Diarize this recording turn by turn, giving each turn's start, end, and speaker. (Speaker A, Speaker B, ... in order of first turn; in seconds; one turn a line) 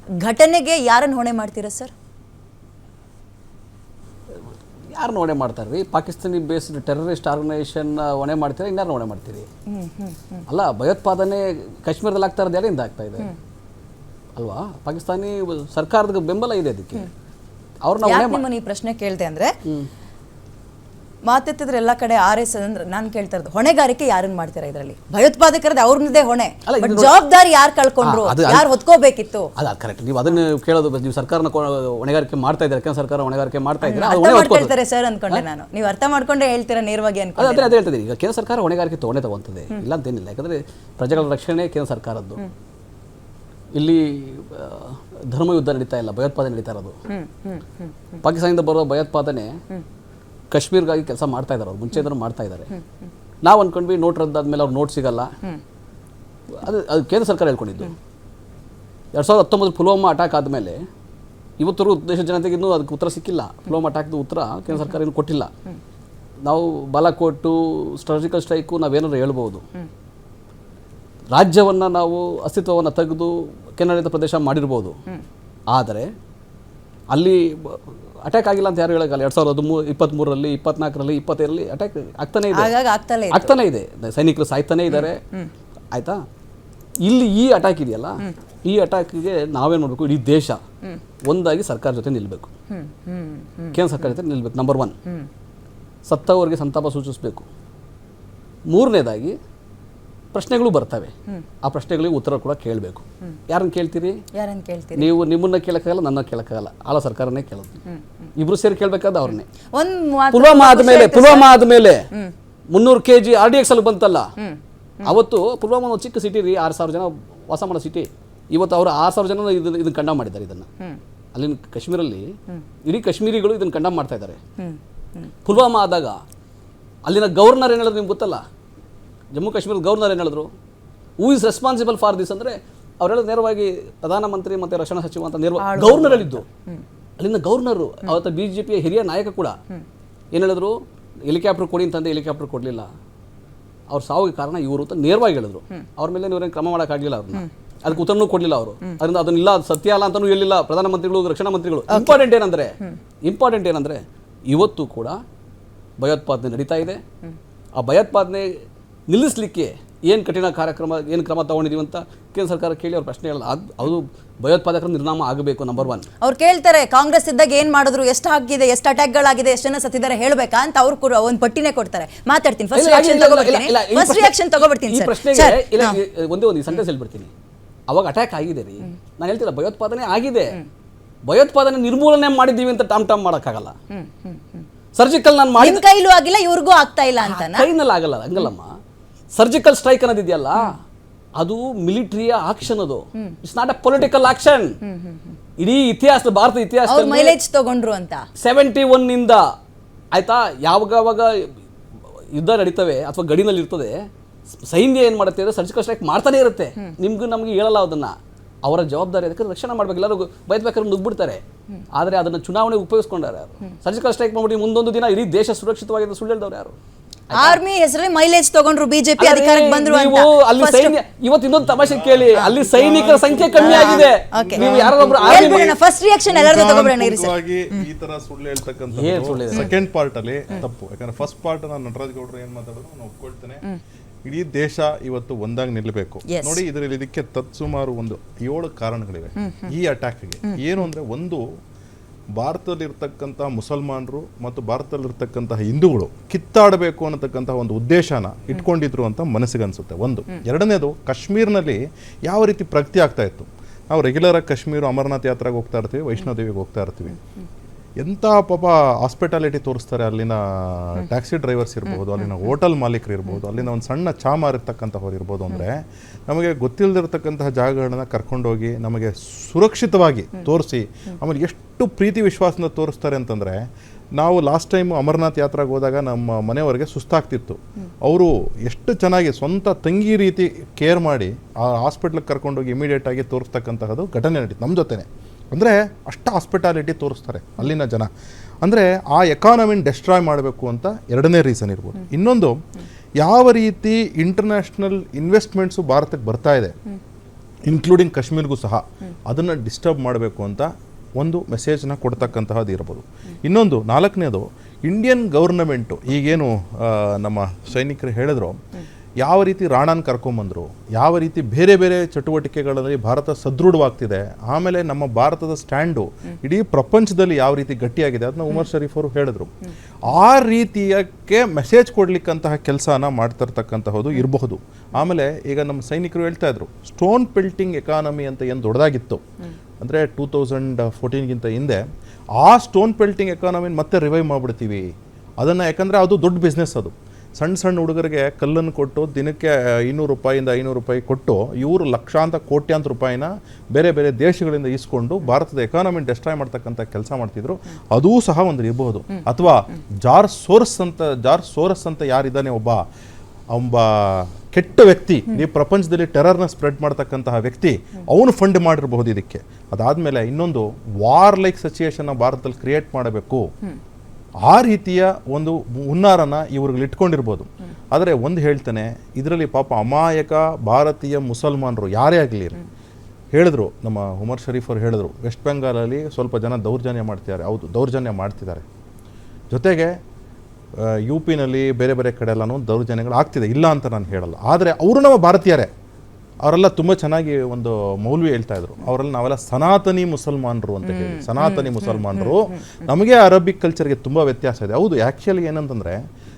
Speaker A: 0.2-1.9
Speaker B: 4.9-9.5
Speaker A: 9.7-10.4
Speaker B: 10.5-13.3
Speaker B: 14.3-17.1
Speaker B: 17.8-18.4
Speaker A: 18.0-19.5
Speaker A: 21.2-29.5
Speaker B: 26.6-27.1
Speaker B: 28.0-28.7
Speaker B: 29.6-34.7
Speaker A: 33.8-37.8
Speaker B: 37.4-42.4
Speaker B: 43.7-47.0
Speaker A: 47.1-47.6
Speaker B: 48.2-49.6
Speaker B: 50.5-52.7
Speaker B: 53.4-55.3
Speaker B: 56.6-57.9
Speaker B: 59.1-60.8
Speaker B: 61.6-65.5
Speaker B: 66.4-69.6
Speaker B: 71.3-75.0
Speaker B: 75.7-76.1
Speaker B: 77.1-82.7
Speaker A: 82.5-83.5
Speaker B: 83.3-85.2
Speaker A: 84.9-85.5
Speaker B: 85.9-86.2
Speaker B: 87.0-90.6
Speaker B: 91.2-92.5
Speaker A: 92.7-93.7
Speaker B: 93.7-94.9
Speaker B: 96.0-97.5
Speaker B: 98.7-99.4
Speaker B: 100.3-104.2
Speaker A: 104.3-105.1
Speaker B: 105.0-107.8
Speaker B: 108.3-109.5
Speaker A: 109.7-112.3
Speaker B: 110.3-112.0
Speaker B: 112.7-114.3
Speaker B: 115.0-120.7
Speaker B: 121.3-124.4
Speaker B: 125.4-126.2
Speaker B: 127.0-128.4
Speaker B: 129.3-130.5
Speaker B: 131.2-136.4
Speaker A: 135.6-136.8
Speaker B: 137.2-139.6
Speaker B: 140.3-142.9
Speaker B: 143.9-155.2
Speaker B: 156.0-157.0
Speaker B: 157.8-158.5
Speaker B: 159.1-166.1
Speaker A: 166.2-176.0
Speaker B: 172.7-177.3
Speaker B: 177.9-180.6
Speaker B: 181.2-183.8
Speaker B: 184.9-185.8
Speaker A: 185.6-187.7
Speaker B: 187.2-188.7
Speaker B: 189.3-190.8
Speaker B: 191.4-194.8
Speaker A: 194.8-195.3
Speaker B: 195.6-197.3
Speaker A: 196.9-198.2
Speaker B: 198.4-199.4
Speaker B: 200.1-201.5
Speaker B: 202.3-204.1
Speaker B: 204.6-211.4
Speaker B: 211.9-216.8
Speaker B: 217.3-217.6
Speaker A: 217.3-221.0
Speaker B: 219.2-225.7
Speaker C: 221.7-225.8
Speaker A: 223.6-227.8
Speaker C: 226.3-233.6
Speaker B: 228.9-229.7
Speaker C: 234.2-241.5
Speaker A: 236.3-236.6
Speaker A: 239.4-239.7
Speaker C: 242.3-257.2
Speaker C: 258.0-288.1
Speaker C: 288.6-292.6
Speaker C: 293.2-296.7
Speaker C: 297.6-308.6
Speaker C: 309.2-319.5
Speaker C: 320.0-329.2
Speaker C: 329.8-331.8
Speaker C: 332.4-334.9
Speaker C: 335.4-352.8
Speaker C: 353.5-363.5
Speaker C: 364.4-372.6
Speaker C: 373.3-378.6
Speaker C: 379.5-380.0
Speaker C: 380.7-385.7
Speaker C: 386.4-396.0